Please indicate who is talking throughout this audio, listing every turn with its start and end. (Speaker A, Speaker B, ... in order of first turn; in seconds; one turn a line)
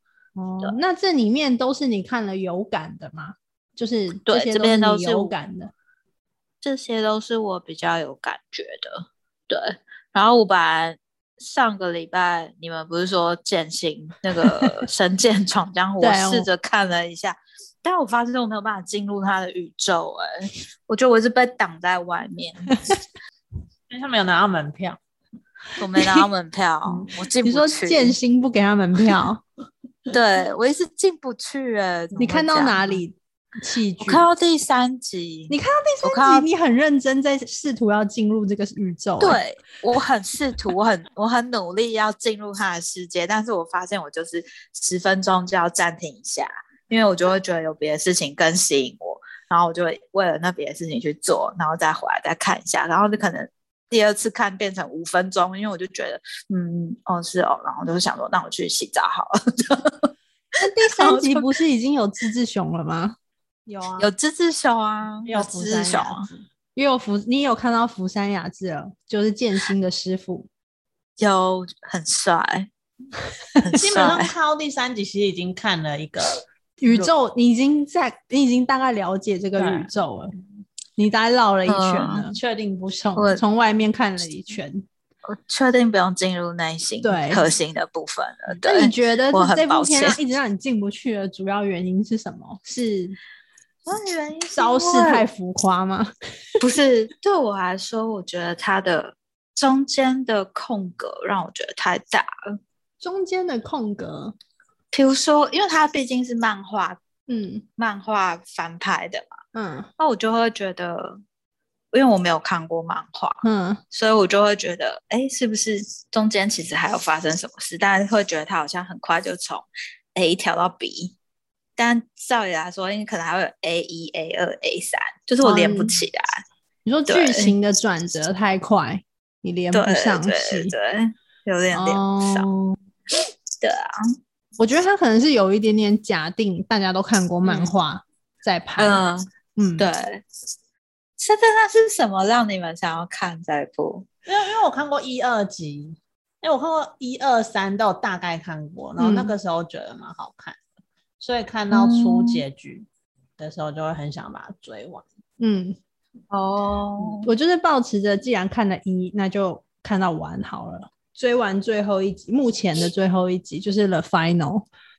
Speaker A: 0.3-5.7
Speaker B: 4.2-5.3
Speaker B: 6.6-22.8
Speaker A: 16.0-16.5
Speaker C: 23.9-25.0
Speaker B: 25.8-28.1
Speaker A: 27.4-29.4
Speaker B: 30.1-33.0
Speaker A: 32.1-34.2
Speaker B: 34.0-36.5
Speaker A: 35.5-39.4
Speaker B: 39.2-60.1
Speaker A: 60.6-63.1
Speaker B: 60.9-61.5
Speaker A: 63.7-64.0
Speaker B: 64.0-66.3
Speaker C: 65.2-66.4
Speaker A: 66.7-70.5
Speaker B: 71.2-72.7
Speaker B: 73.6-74.3
Speaker C: 73.7-77.1
Speaker A: 76.8-80.3
Speaker C: 79.6-79.9
Speaker A: 81.0-82.4
Speaker B: 81.7-82.3
Speaker C: 82.3-83.2
Speaker A: 83.0-84.8
Speaker B: 83.2-83.4
Speaker B: 85.2-90.2
Speaker A: 87.0-87.5
Speaker A: 88.6-93.2
Speaker B: 93.8-95.2
Speaker A: 94.5-96.1
Speaker B: 96.6-102.3
Speaker A: 103.0-104.3
Speaker B: 104.9-107.0
Speaker A: 107.3-107.6
Speaker B: 107.8-109.3
Speaker A: 109.5-109.9
Speaker B: 110.0-111.2
Speaker B: 111.9-121.1
Speaker A: 113.4-113.8
Speaker B: 121.8-126.4
Speaker A: 125.4-126.0
Speaker A: 126.8-130.7
Speaker B: 127.1-127.5
Speaker B: 129.7-132.5
Speaker A: 131.7-132.8
Speaker B: 133.6-134.2
Speaker A: 134.6-139.0
Speaker B: 137.4-137.8
Speaker B: 138.8-140.2
Speaker A: 139.6-139.9
Speaker B: 141.2-144.1
Speaker C: 144.2-150.6
Speaker A: 149.0-149.4
Speaker C: 151.2-152.8
Speaker B: 151.7-152.4
Speaker C: 153.4-155.0
Speaker A: 155.4-155.8
Speaker B: 156.3-157.3
Speaker A: 157.2-164.7